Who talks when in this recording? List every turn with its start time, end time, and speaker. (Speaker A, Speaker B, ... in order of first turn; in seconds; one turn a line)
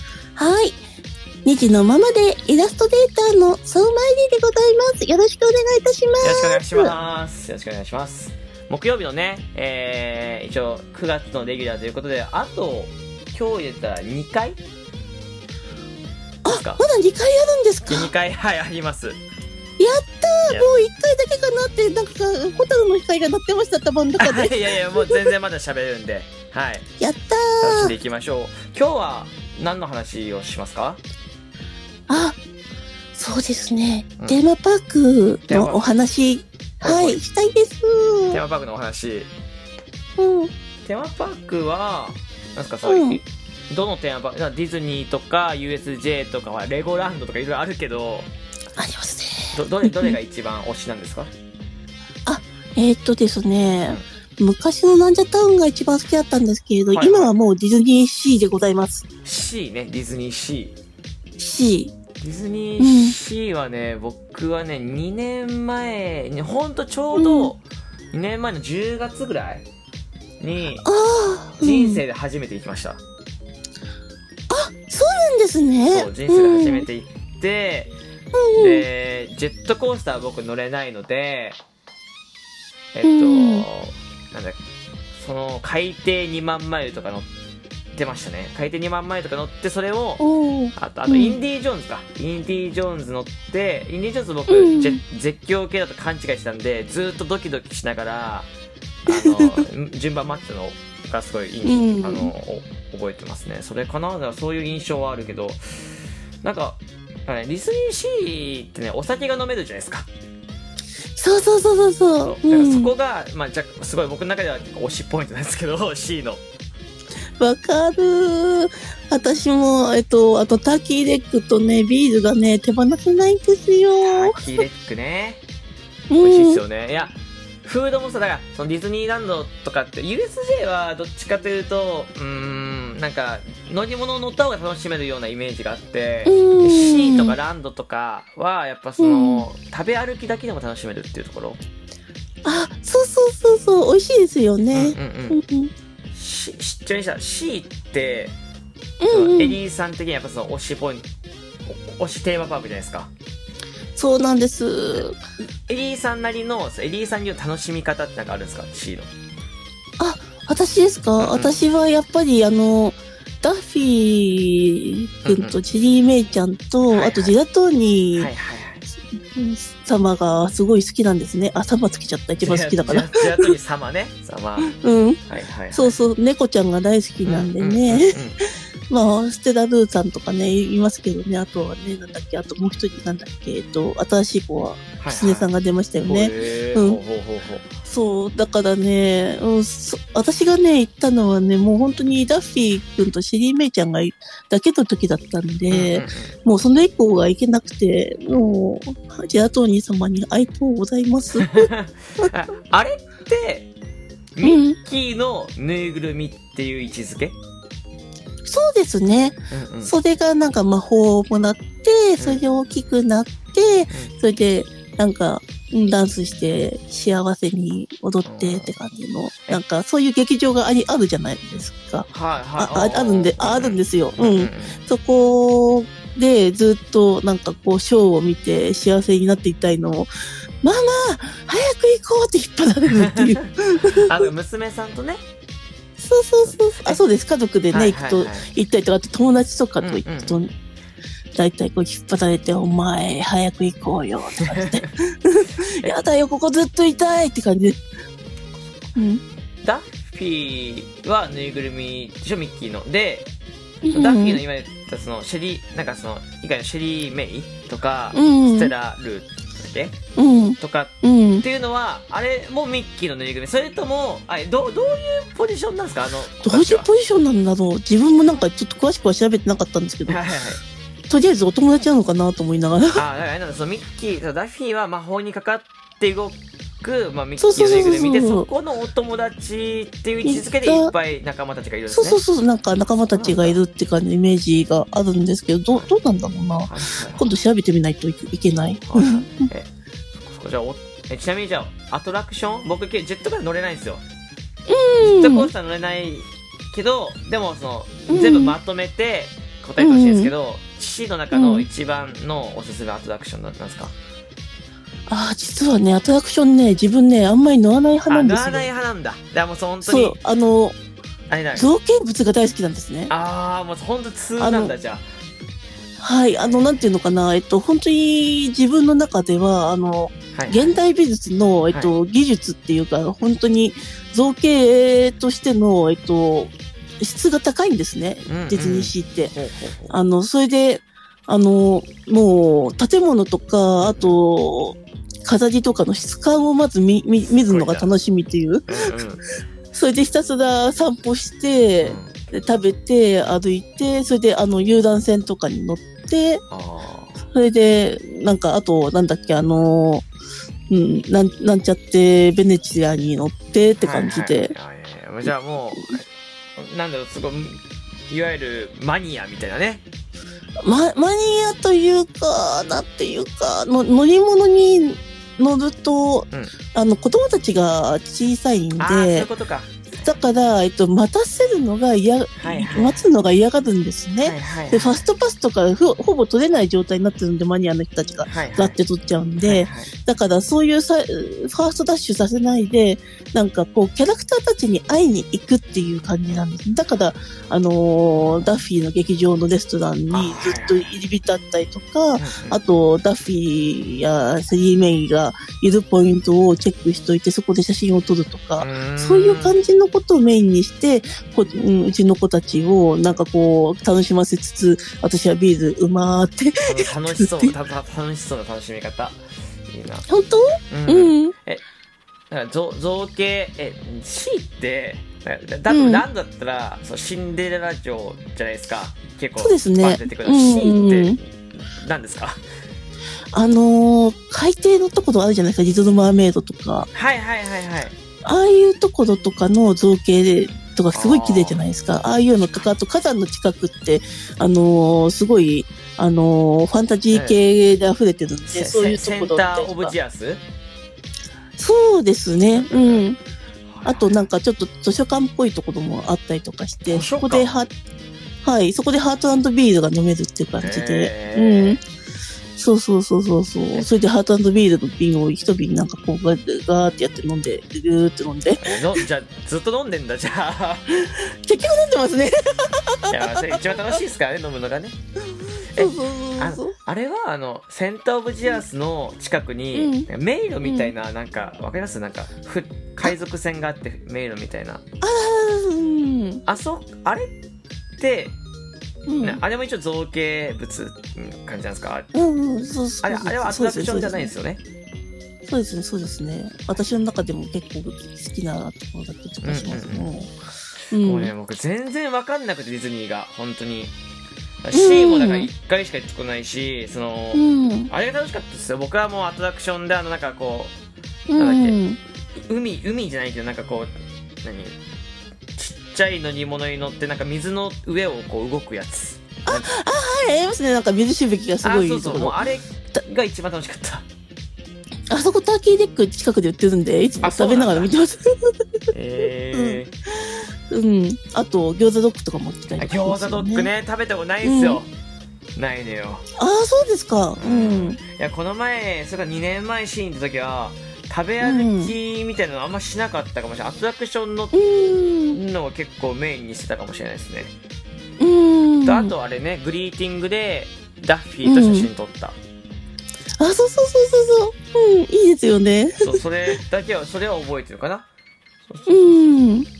Speaker A: 0.3-0.8
Speaker A: 1.4-6.9
Speaker B: 6.2-14.6
Speaker A: 16.4-18.1
Speaker B: 16.5-16.8
Speaker B: 17.8-19.2
Speaker A: 19.8-25.3
Speaker B: 24.2-26.9
Speaker A: 27.0-27.9
Speaker B: 27.6-31.0
Speaker A: 32.1-32.4
Speaker A: 33.1-38.4
Speaker B: 35.5-35.8
Speaker B: 36.8-37.2
Speaker B: 38.3-39.3
Speaker A: 40.2-40.5
Speaker B: 40.8-48.3
Speaker A: 42.8-43.2
Speaker A: 48.8-50.1
Speaker B: 49.5-51.3
Speaker A: 52.2-59.0
Speaker B: 56.9-57.4
Speaker B: 59.2-60.8
Speaker A: 61.4-61.9
Speaker B: 62.2-67.6
Speaker A: 62.8-63.2
Speaker A: 67.1-67.5
Speaker B: 68.1-69.6
Speaker B: 70.4-70.8
Speaker A: 70.8-72.0
Speaker B: 71.6-73.0
Speaker A: 74.5-76.9
Speaker B: 75.9-77.9
Speaker A: 78.3-78.8
Speaker B: 78.6-81.6
Speaker B: 82.9-84.6
Speaker A: 83.0-83.7
Speaker B: 85.1-87.3
Speaker B: 87.9-98.5
Speaker A: 90.2-91.4
Speaker A: 94.5-95.0
Speaker B: 99.1-105.6
Speaker A: 99.1-99.6
Speaker A: 101.6-102.3
Speaker B: 106.4-110.1
Speaker A: 111.2-112.9
Speaker B: 112.2-116.4
Speaker A: 117.4-124.5
Speaker B: 124.0-125.4
Speaker A: 126.1-126.6
Speaker B: 126.2-141.6
Speaker A: 136.2-137.4
Speaker A: 139.0-139.4
Speaker A: 142.4-145.7
Speaker B: 144.7-145.4
Speaker B: 146.1-148.3
Speaker A: 149.0-149.6
Speaker B: 149.1-151.1
Speaker B: 151.7-153.1
Speaker A: 153.9-155.2
Speaker B: 155.7-159.1
Speaker A: 160.0-168.3
Speaker B: 161.2-161.6
Speaker B: 165.2-165.6
Speaker B: 166.9-167.3
Speaker B: 168.2-168.8
Speaker A: 169.3-173.5
Speaker B: 172.4-174.7
Speaker A: 174.7-178.2
Speaker B: 175.3-176.0
Speaker B: 177.2-178.4
Speaker A: 178.9-187.0
Speaker B: 185.0-185.5
Speaker B: 186.0-187.7
Speaker A: 187.8-202.3
Speaker B: 195.7-196.4
Speaker B: 201.4-203.7
Speaker B: 204.3-207.3
Speaker A: 204.4-204.8
Speaker A: 208.4-230.1
Speaker B: 209.5-209.9
Speaker B: 218.2-218.7
Speaker B: 222.1-224.8
Speaker A: 230.6-234.1
Speaker B: 233.8-235.2
Speaker A: 236.0-240.5
Speaker B: 236.4-237.0
Speaker B: 237.7-238.4
Speaker B: 239.8-240.4
Speaker A: 241.3-247.8
Speaker A: 248.9-249.2
Speaker B: 249.6-253.3
Speaker A: 253.8-254.4
Speaker B: 253.9-260.0
Speaker A: 258.1-258.7
Speaker A: 260.2-261.4
Speaker B: 260.6-266.9
Speaker A: 266.4-270.3
Speaker B: 270.1-270.6
Speaker A: 271.1-273.0
Speaker B: 272.9-282.2
Speaker A: 277.4-278.5
Speaker A: 280.2-280.9
Speaker A: 281.9-289.5
Speaker B: 283.1-283.6
Speaker B: 286.7-287.3
Speaker B: 288.9-294.0
Speaker A: 294.7-295.5
Speaker B: 295.0-303.9
Speaker A: 298.1-298.5
Speaker A: 299.8-300.3
Speaker A: 301.3-301.7
Speaker A: 305.1-308.7
Speaker B: 308.1-310.2
Speaker A: 309.8-310.8
Speaker B: 311.3-311.7
Speaker A: 311.5-313.1
Speaker B: 313.1-315.1
Speaker A: 314.4-314.7
Speaker A: 316.0-329.3
Speaker B: 316.3-316.8
Speaker B: 320.3-320.8
Speaker B: 328.3-329.9
Speaker A: 329.9-338.9
Speaker B: 333.8-334.2
Speaker B: 337.3-337.9
Speaker B: 338.7-339.2
Speaker A: 339.7-346.4
Speaker B: 341.8-342.2
Speaker B: 346.5-347.2
Speaker A: 347.3-350.1
Speaker A: 350.7-354.5
Speaker B: 353.8-359.8
Speaker A: 360.6-369.3
Speaker B: 366.3-366.6
Speaker B: 368.8-370.2
Speaker A: 370.0-407.5
Speaker B: 372.4-373.0
Speaker B: 374.2-375.0
Speaker B: 378.2-378.8
Speaker B: 379.4-379.9
Speaker B: 388.1-388.5
Speaker B: 390.1-390.9
Speaker B: 392.2-392.6
Speaker B: 398.6-399.6
Speaker B: 406.7-410.1
Speaker A: 410.1-411.3
Speaker B: 410.7-411.6
Speaker B: 412.3-422.4
Speaker A: 415.7-416.0
Speaker A: 419.4-421.2
Speaker A: 423.3-426.9
Speaker B: 426.9-427.9
Speaker A: 428.2-439.9
Speaker B: 430.9-431.6
Speaker B: 432.4-432.7
Speaker B: 437.1-437.4
Speaker B: 438.5-440.4
Speaker A: 441.6-443.2
Speaker B: 442.4-443.1
Speaker B: 443.7-444.2
Speaker A: 443.8-447.7
Speaker B: 446.9-447.6
Speaker A: 448.4-451.8
Speaker B: 450.6-451.8
Speaker A: 452.6-459.0
Speaker B: 458.6-461.0
Speaker A: 461.1-463.8
Speaker B: 463.1-465.0
Speaker A: 465.4-466.7
Speaker B: 465.7-474.8
Speaker A: 469.7-470.1
Speaker A: 470.6-470.9
Speaker A: 475.0-476.4
Speaker B: 476.4-477.3
Speaker B: 478.0-478.3
Speaker A: 479.1-479.4
Speaker B: 479.2-482.1
Speaker A: 482.1-484.3
Speaker B: 483.0-484.6
Speaker A: 485.4-490.3
Speaker B: 489.4-490.1
Speaker A: 490.9-491.3
Speaker B: 490.9-493.9
Speaker B: 494.6-500.7
Speaker A: 494.7-495.5
Speaker A: 497.3-497.9
Speaker A: 501.3-502.0
Speaker B: 501.4-501.8
Speaker B: 502.5-503.9
Speaker B: 504.4-504.8
Speaker B: 505.6-509.7
Speaker A: 509.4-512.4
Speaker B: 511.6-514.0
Speaker A: 515.1-518.6
Speaker B: 517.2-517.9
Speaker B: 518.9-519.9
Speaker A: 519.5-519.8
Speaker A: 520.7-523.7
Speaker B: 522.8-524.9
Speaker A: 524.4-524.8
Speaker B: 525.5-526.2
Speaker A: 526.4-528.0
Speaker B: 527.4-534.6
Speaker A: 531.4-532.0
Speaker A: 534.5-535.4
Speaker B: 535.3-537.5
Speaker A: 538.2-539.1
Speaker B: 538.8-542.4
Speaker A: 541.4-541.9
Speaker A: 543.4-546.5
Speaker B: 546.0-548.1
Speaker B: 548.6-549.2
Speaker A: 548.9-549.7